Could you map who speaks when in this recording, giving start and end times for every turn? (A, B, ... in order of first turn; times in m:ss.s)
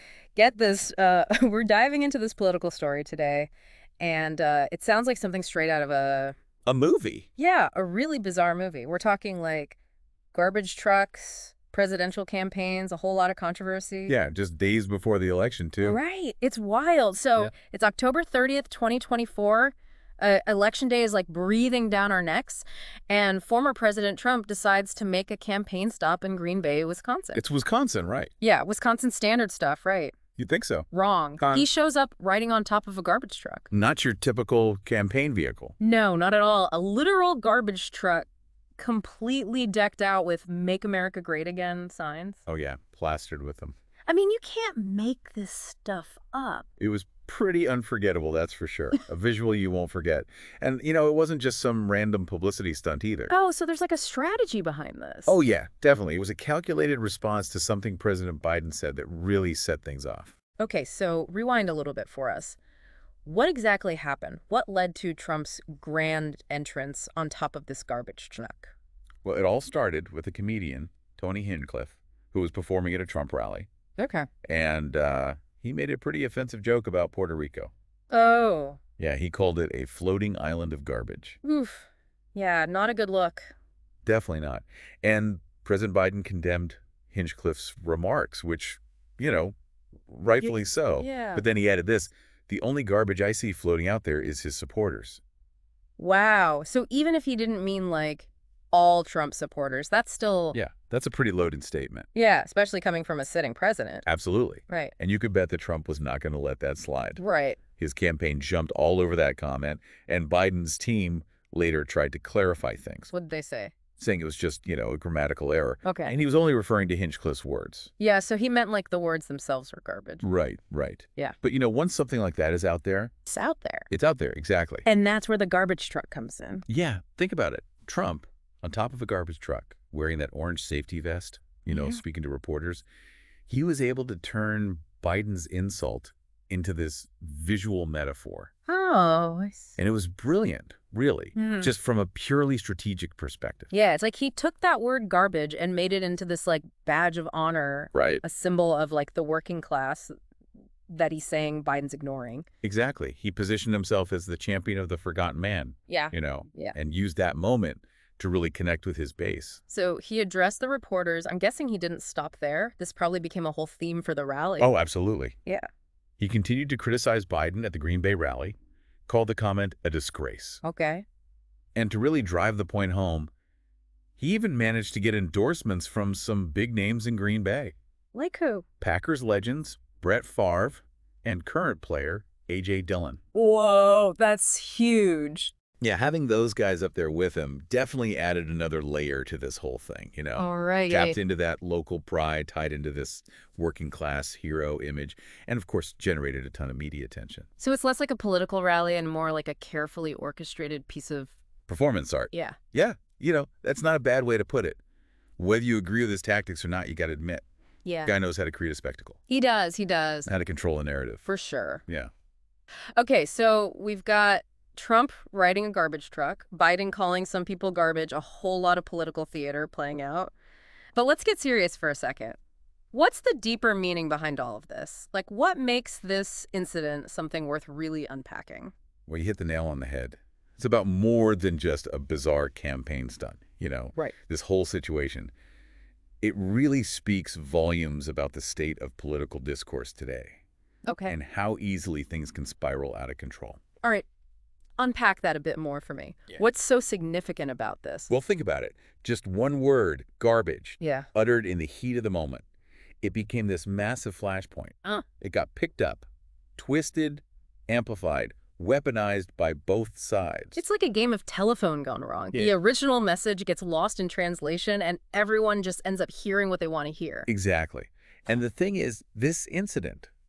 0:00.3-0:06.3 A
0:06.6-0:07.3 B
0:07.4-0:09.8 A
0:10.3-0:14.1 A
0:14.1-0:16.0 B
0:15.8-0:27.4 A
0:27.3-0:28.3 B
0:28.4-0:30.1 A
0:30.4-0:30.9 B
0:30.9-0:33.7 A
0:31.4-0:31.7 B
0:33.7-0:35.7 B
0:35.8-0:38.3 A
0:38.8-0:42.4 A
0:42.4-0:43.7 B
0:44.1-0:46.6 A
0:46.8-0:53.3 B
0:53.3-0:55.4 A
0:55.3-1:00.3 B
1:00.6-1:02.6 A
1:03.2-1:08.7 A
1:09.2-1:13.7 B
1:14.0-1:14.3 A
1:14.4-1:17.7 B
1:18.1-1:18.8 A
1:19.0-1:21.4 B
1:21.4-1:23.5 A
1:24.0-1:29.5 B
1:30.1-1:35.2 B
1:30.4-1:31.4 A
1:36.0-1:40.6 A
1:40.5-1:42.1 B
1:42.1-1:44.0 A
1:44.0-1:47.2 B
1:44.7-1:44.9 A
1:47.2-1:47.6 A
1:47.8-1:53.1 B
1:53.1-1:53.7 A
1:54.0-1:57.9 B
1:55.8-1:56.1 A
1:58.0-2:00.2 A
2:00.2-2:03.1 B
2:03.2-2:03.9 A
2:03.9-2:04.8 B
2:04.8-2:06.6 A
2:06.7-2:12.8 B
2:11.7-2:12.0 A
2:13.5-2:18.5 B
2:18.7-2:19.8 A
2:19.8-2:23.7 B
2:21.3-2:21.7 A
2:23.7-2:30.1 A
2:27.9-2:28.2 B
2:30.9-2:32.4 A
2:32.6-2:39.6 B
2:35.9-2:36.8 A
2:39.7-2:44.7 A
2:44.6-2:45.4 B
2:46.2-2:48.6 B
2:49.1-2:50.6 B
2:50.6-2:51.0 A
2:51.7-2:53.3 B
2:54.2-2:57.7 B
2:58.1-2:58.6 A
2:58.8-3:03.2 B
3:03.3-3:05.5 A
3:05.8-3:17.5 B
3:10.4-3:11.2 A
3:17.6-3:21.3 A
3:21.7-3:24.8 B
3:22.3-3:22.6 A
3:25.4-3:27.4 B
3:27.8-3:28.1 A
3:28.0-3:29.2 B
3:29.3-3:30.3 A
3:30.3-3:31.2 B
3:31.2-3:31.8 A
3:33.0-3:40.3 A
3:40.9-3:42.4 A
3:42.9-3:48.7 A
3:49.1-3:55.3 B
3:56.2-4:00.4 B
4:00.8-4:01.1 A
4:01.0-4:03.6 B
4:04.8-4:08.1 A
4:08.1-4:12.4 B
4:10.8-4:11.1 A
4:13.0-4:16.0 B
4:16.6-4:20.6 B
4:20.6-4:27.3 A
4:27.2-4:30.1 B